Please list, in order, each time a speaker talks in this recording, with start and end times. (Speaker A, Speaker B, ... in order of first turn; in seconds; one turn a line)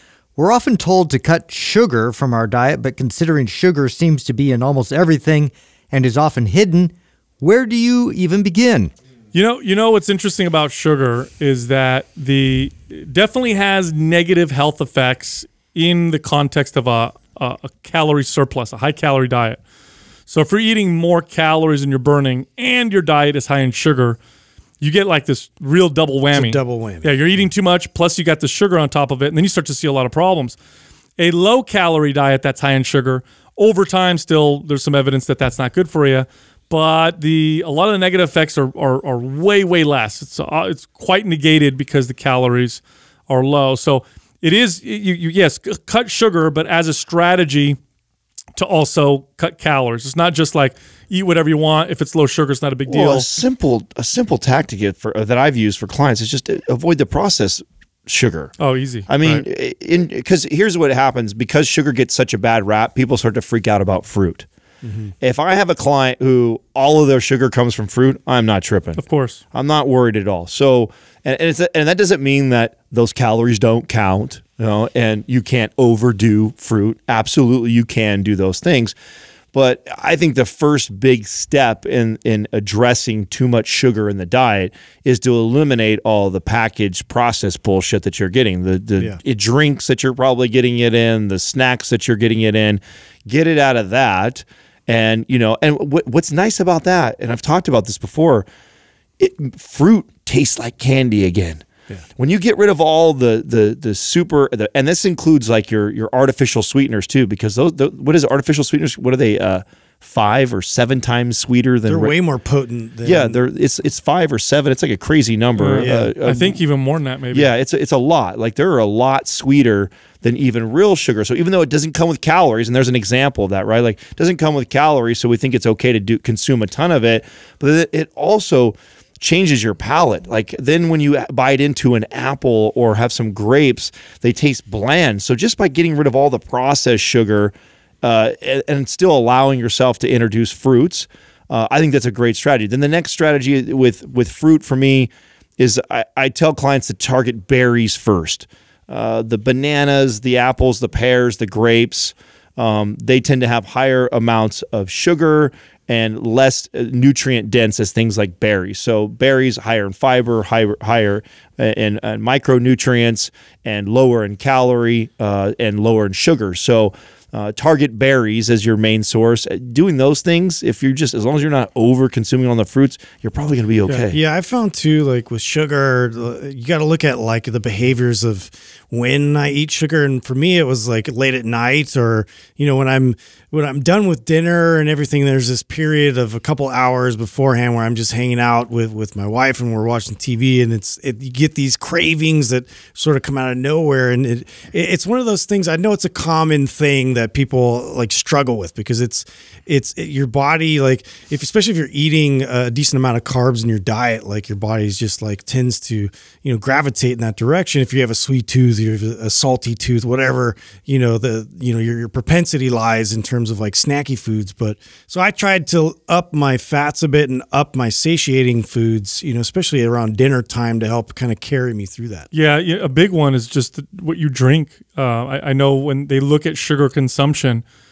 Speaker A: 0.4-8.9
Speaker B: 9.3-19.6
Speaker B: 20.3-24.2
Speaker B: 24.8-30.6
Speaker C: 26.3-27.2
Speaker B: 31.2-47.8
Speaker B: 48.5-53.3
Speaker D: 52.9-58.5
Speaker B: 58.6-59.4
Speaker D: 59.1-64.5
Speaker C: 64.8-65.1
Speaker D: 65.2-69.0
Speaker B: 69.0-69.4
Speaker D: 69.5-78.9
Speaker D: 79.5-98.5
Speaker D: 99.2-101.6
Speaker D: 102.2-112.1
Speaker C: 111.8-113.4
Speaker D: 113.0-116.6
Speaker B: 115.5-117.5
Speaker C: 115.8-116.1
Speaker D: 117.3-174.2
Speaker C: 173.9-222.3
Speaker B: 222.3-227.6